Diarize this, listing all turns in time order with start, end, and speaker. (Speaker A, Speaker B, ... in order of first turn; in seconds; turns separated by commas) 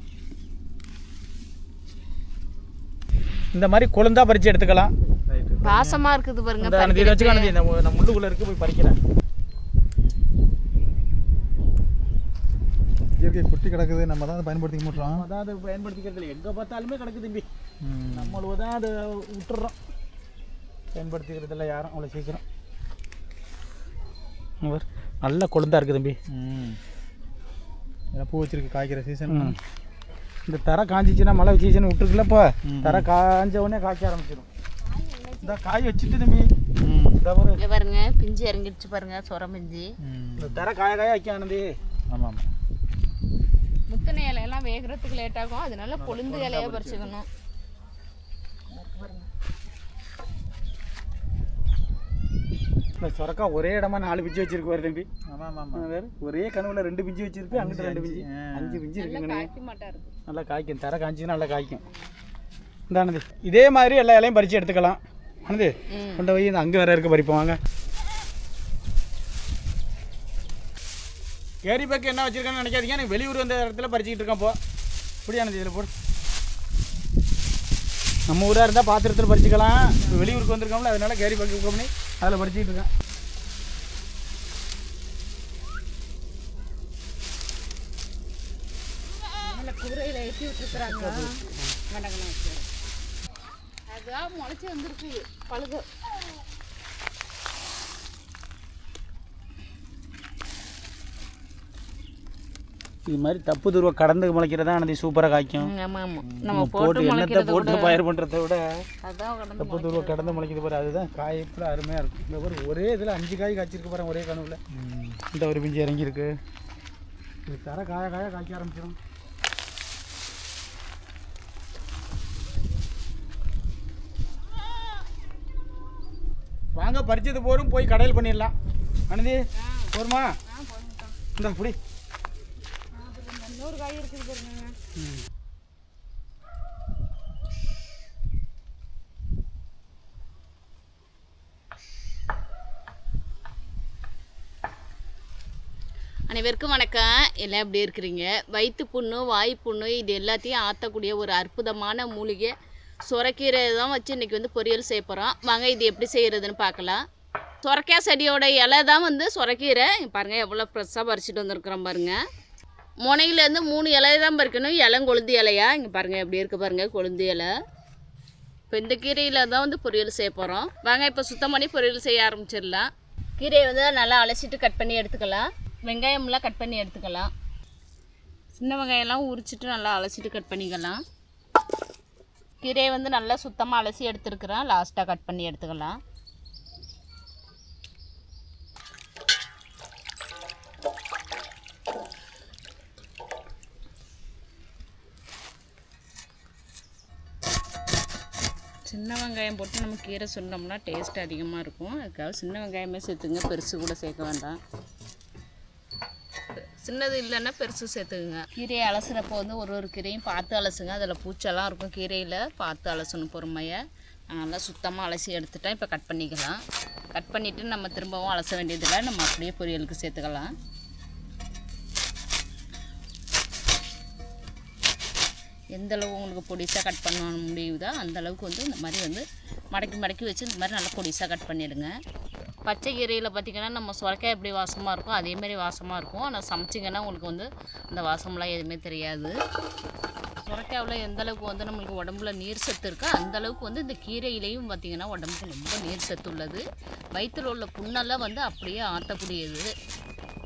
Speaker A: 3.5-4.9, Speaker B: 5.3-6.0, Speaker C: 5.6-7.5, Speaker A: 6.6-9.0, Speaker B: 13.2-15.3, Speaker A: 14.9-17.5, Speaker B: 17.8-18.4, Speaker A: 18.1-19.8, Speaker A: 20.9-22.4, Speaker A: 24.6-26.2, Speaker B: 26.3-26.8, Speaker B: 28.1-29.6, Speaker A: 29.3-29.6, Speaker A: 30.5-34.5, Speaker B: 32.7-33.1, Speaker C: 34.9-35.5, Speaker A: 35.4-36.5, Speaker B: 36.8-37.2, Speaker A: 37.2-37.6, Speaker C: 37.6-39.9, Speaker B: 40.0-40.6, Speaker A: 40.4-41.7, Speaker B: 42.1-42.5, Speaker C: 43.9-47.3, Speaker B: 46.0-46.9, Speaker A: 46.3-47.0, Speaker C: 48.7-49.3, Speaker A: 53.0-55.1, Speaker B: 55.3-55.9, Speaker A: 55.7-59.5, Speaker B: 57.5-58.9, Speaker C: 59.0-60.1, Speaker A: 60.3-61.8, Speaker A: 62.9-67.6, Speaker C: 65.9-66.3, Speaker A: 71.6-74.6, Speaker A: 75.2-75.9, Speaker A: 78.3-82.9, Speaker C: 80.1-80.4, Speaker C: 89.4-92.7, Speaker A: 90.8-91.6, Speaker C: 93.9-95.9, Speaker A: 103.1-105.7, Speaker C: 105.6-107.9, Speaker A: 106.4-108.8, Speaker C: 109.0-110.4, Speaker A: 109.6-114.6, Speaker B: 114.7-115.2, Speaker A: 115.3-116.4, Speaker A: 117.5-119.0, Speaker A: 126.8-128.5, Speaker A: 129.1-130.3, Speaker C: 129.6-129.9, Speaker C: 130.5-131.2, Speaker A: 131.3-131.8, Speaker C: 132.9-134.8, Speaker A: 135.0-135.2, Speaker C: 146.3-152.5, Speaker C: 153.1-157.0, Speaker C: 157.6-162.2, Speaker C: 163.0-167.5, Speaker C: 168.7-177.3, Speaker C: 178.6-181.0, Speaker C: 182.6-186.0, Speaker C: 198.9-204.6, Speaker C: 206.6-216.6, Speaker C: 217.2-220.5, Speaker C: 225.7-231.9, Speaker C: 232.7-239.3, Speaker C: 240.4-246.6, Speaker C: 247.2-249.7